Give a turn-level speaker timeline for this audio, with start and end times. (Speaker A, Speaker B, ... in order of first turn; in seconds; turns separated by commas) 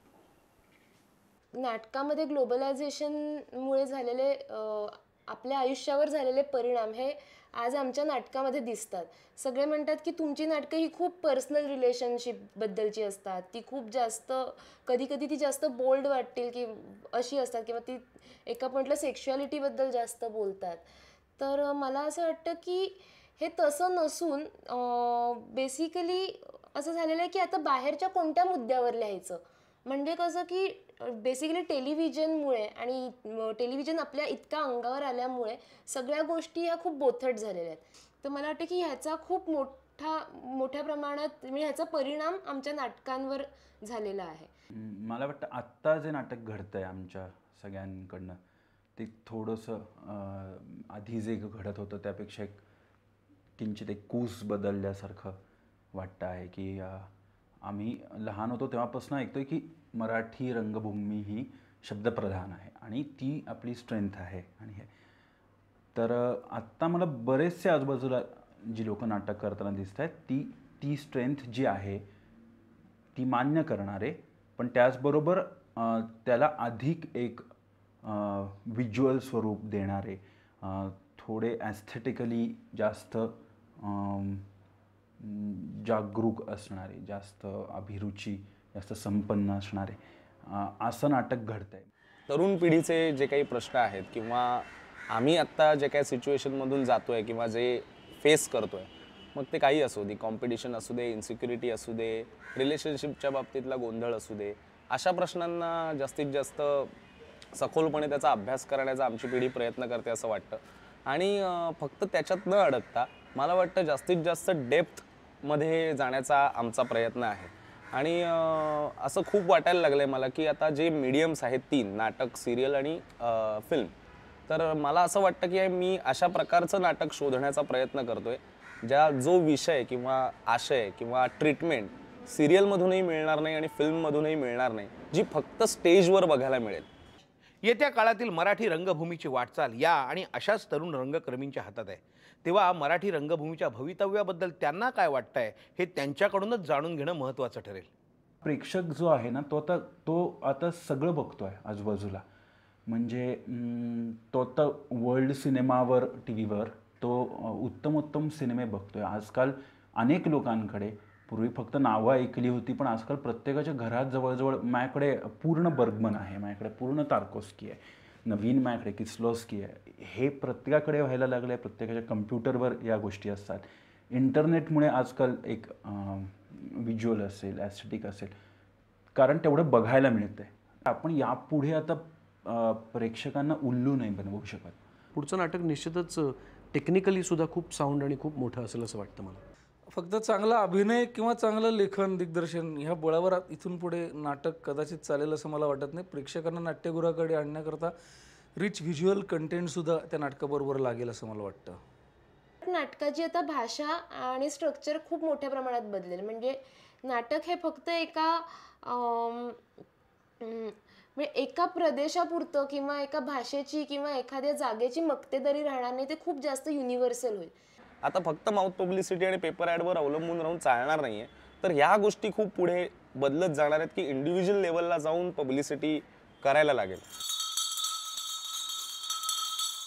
Speaker A: 1.6-20.9, Speaker A: 21.4-44.5, Speaker B: 44.8-48.4, Speaker B: 49.0-52.6, Speaker B: 53.6-55.4, Speaker B: 55.9-57.1, Speaker B: 57.6-64.9, Speaker B: 65.9-72.0, Speaker B: 73.1-77.5, Speaker B: 78.0-84.5, Speaker B: 85.2-91.9, Speaker C: 92.3-98.9, Speaker C: 99.4-106.7, Speaker C: 107.6-110.5, Speaker C: 111.1-118.2, Speaker C: 119.1-123.3, Speaker C: 124.5-128.3, Speaker C: 128.9-136.3, Speaker D: 137.6-147.9, Speaker B: 148.4-152.2, Speaker B: 152.9-178.3, Speaker B: 179.1-184.8, Speaker E: 185.2-185.8, Speaker E: 187.8-189.3, Speaker F: 189.9-197.9, Speaker F: 198.6-201.8, Speaker A: 202.6-209.6, Speaker A: 210.4-217.5, Speaker C: 218.0-227.0